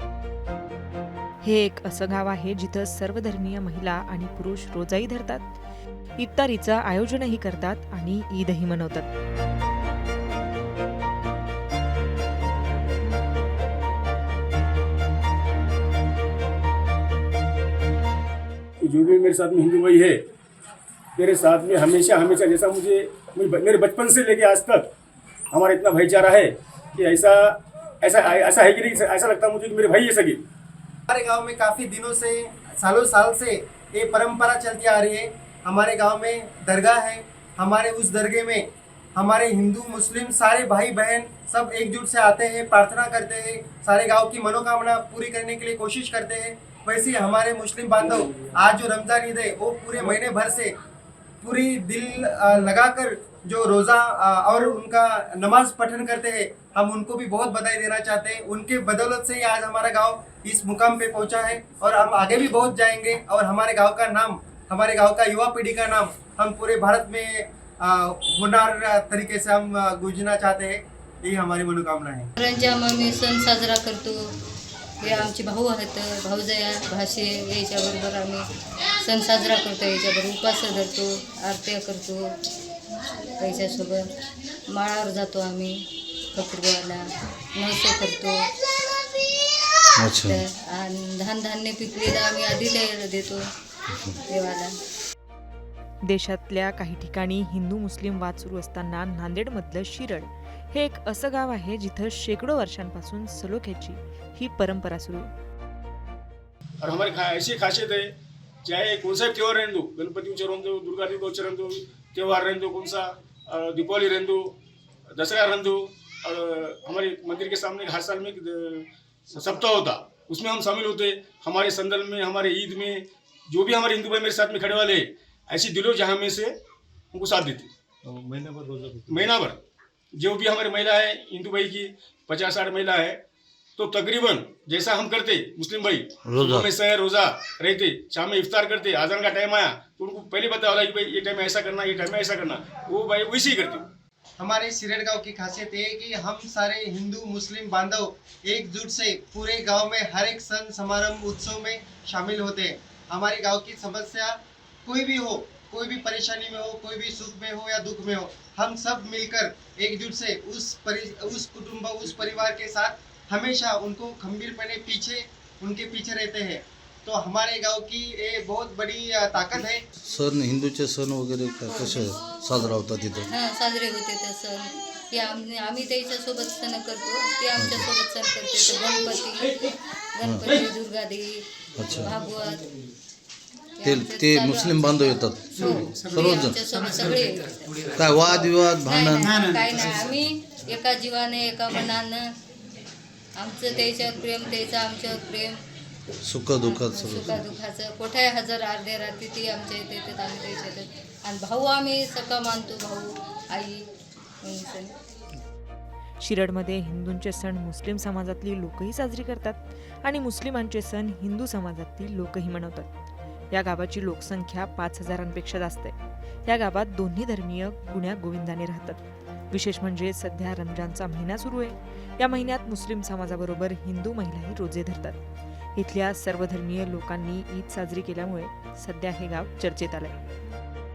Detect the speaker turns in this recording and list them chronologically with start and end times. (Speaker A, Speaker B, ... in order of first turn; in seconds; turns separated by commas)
Speaker A: 1.4-5.5, Speaker A: 6.2-9.1, Speaker B: 18.8-20.2, Speaker B: 21.2-24.9, Speaker B: 25.5-30.4, Speaker C: 31.1-50.7, Speaker C: 51.4-72.3, Speaker D: 72.4-74.3, Speaker D: 75.0-82.3, Speaker D: 83.1-84.1, Speaker D: 84.7-85.8, Speaker D: 86.3-87.0, Speaker D: 87.5-88.4, Speaker E: 90.0-90.4, Speaker D: 90.2-93.4, Speaker D: 94.2-94.7, Speaker A: 96.0-105.3, Speaker B: 106.8-108.1, Speaker B: 108.7-114.6, Speaker B: 115.1-126.5, Speaker B: 127.1-127.7, Speaker C: 128.0-129.3, Speaker B: 129.1-129.6, Speaker B: 130.2-133.2, Speaker B: 133.8-143.9, Speaker E: 136.2-136.7, Speaker C: 144.4-169.8, Speaker E: 170.0-173.3, Speaker D: 173.3-182.7, Speaker E: 177.6-177.9, Speaker E: 180.2-180.5, Speaker E: 181.8-182.1, Speaker D: 183.8-188.0, Speaker E: 183.8-186.6, Speaker E: 187.9-189.4, Speaker D: 188.7-192.3, Speaker D: 193.4-195.6, Speaker E: 196.2-197.5, Speaker D: 196.6-203.9, Speaker D: 204.4-204.9, Speaker A: 206.2-212.9, Speaker A: 213.5-225.2, Speaker A: 225.8-230.2